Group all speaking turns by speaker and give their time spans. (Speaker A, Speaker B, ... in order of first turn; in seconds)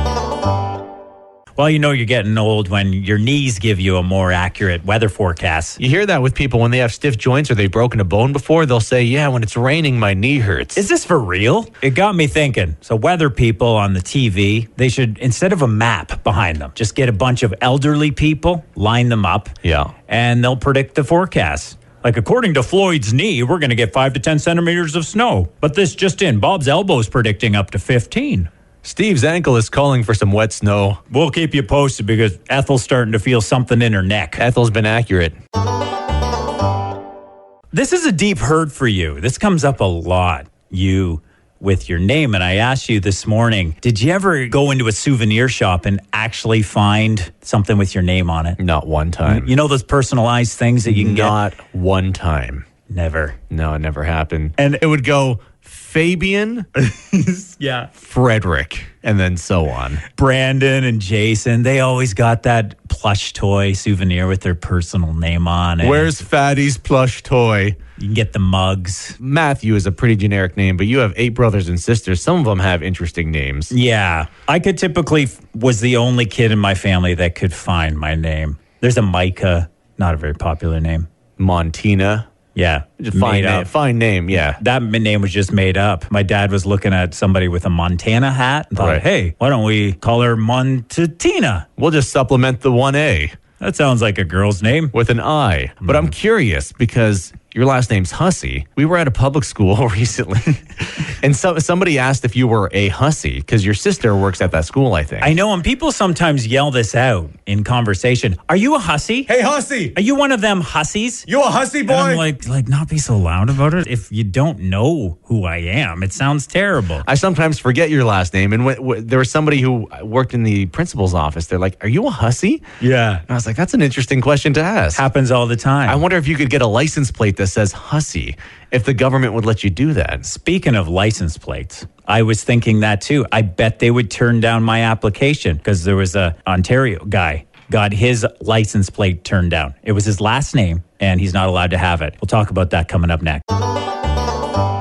Speaker A: 1.6-5.8, 10.8-19.6, 20.1-28.5, 31.1-34.4, 37.7-48.6, 49.3-51.4, 52.9-53.4, 56.8-57.9, 60.1-66.1, 68.0-69.2, 73.7-81.1, 82.5-83.7, 84.4-91.7, 93.6-94.9, 95.8-96.2, 105.2-109.3, 110.0-111.3, 111.9-117.0, 122.8-123.2, 124.9-126.0, 130.2-143.4
Speaker B: 5.8-10.8, 19.6-19.9, 28.8-31.0, 34.4-35.4, 48.6-49.5, 50.9-52.6, 53.5-56.7, 58.0-60.0, 65.8-67.8, 69.2-73.7, 81.4-82.3, 83.0-84.6, 88.8-89.0, 91.8-93.3, 94.9-105.3, 109.3-110.0, 111.3-112.2, 117.0-122.6, 123.3-125.0, 125.9-130.3